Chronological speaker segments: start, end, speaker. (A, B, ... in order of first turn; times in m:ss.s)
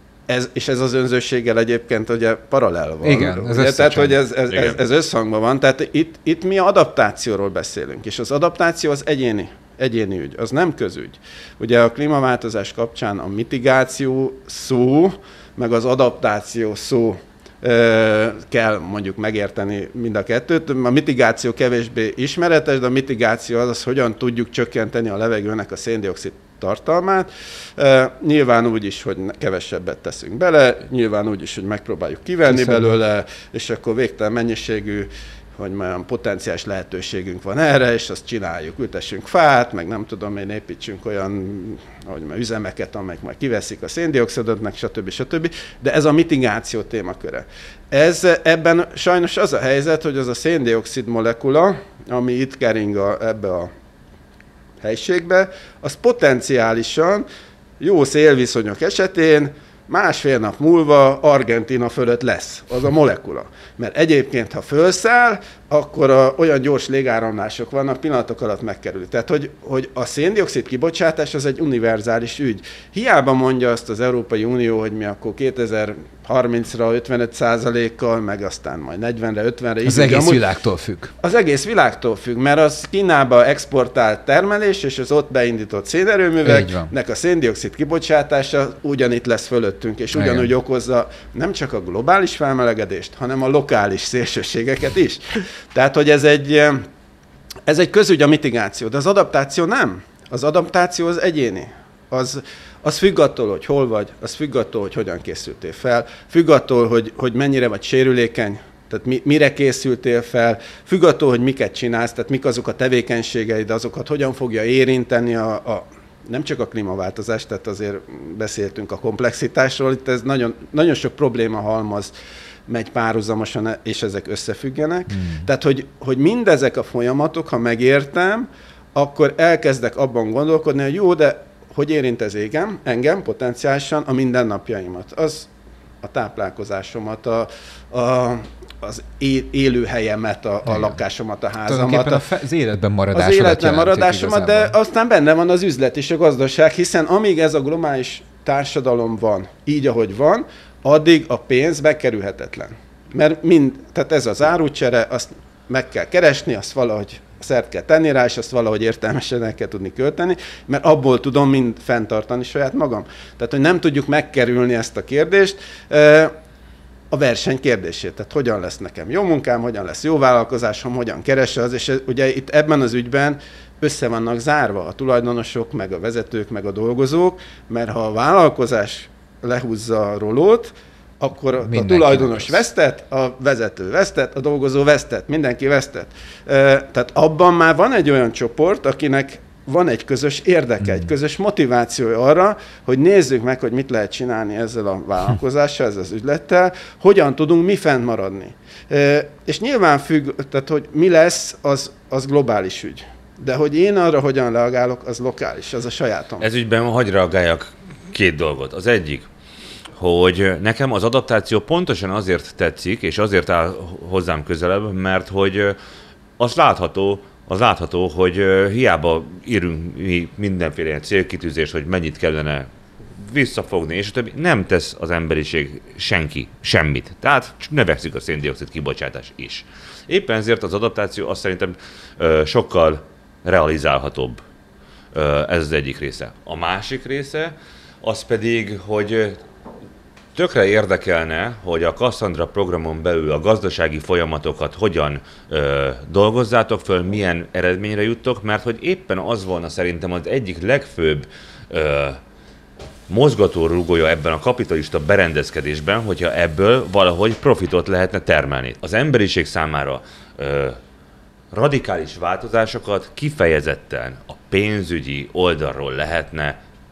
0:00.3-0:53.7 A
0:03.0-0:04.2 B
0:04.5-0:04.8 C
0:32.5-0:33.0 B
0:54.8-0:57.2 A
0:57.8-1:20.4 A
1:19.8-1:21.1 B
1:21.2-1:36.9 A
1:26.4-1:26.9 B
1:30.1-1:30.5 B
1:37.7-2:02.1 A
2:02.7-2:15.5 A
2:05.1-2:05.5 B
2:16.0-2:22.2 A
2:20.7-2:21.0 B
2:21.7-2:24.7 B
2:23.1-2:46.3 A
2:47.1-3:26.5 A
3:01.6-3:02.6 B
3:10.8-3:11.1 B
3:26.4-3:29.3 C
3:29.9-3:35.8 C
3:36.4-3:54.4 C
3:55.1-3:59.4 C
4:00.4-4:12.2 C
4:13.1-4:20.8 C
4:21.5-4:26.6 C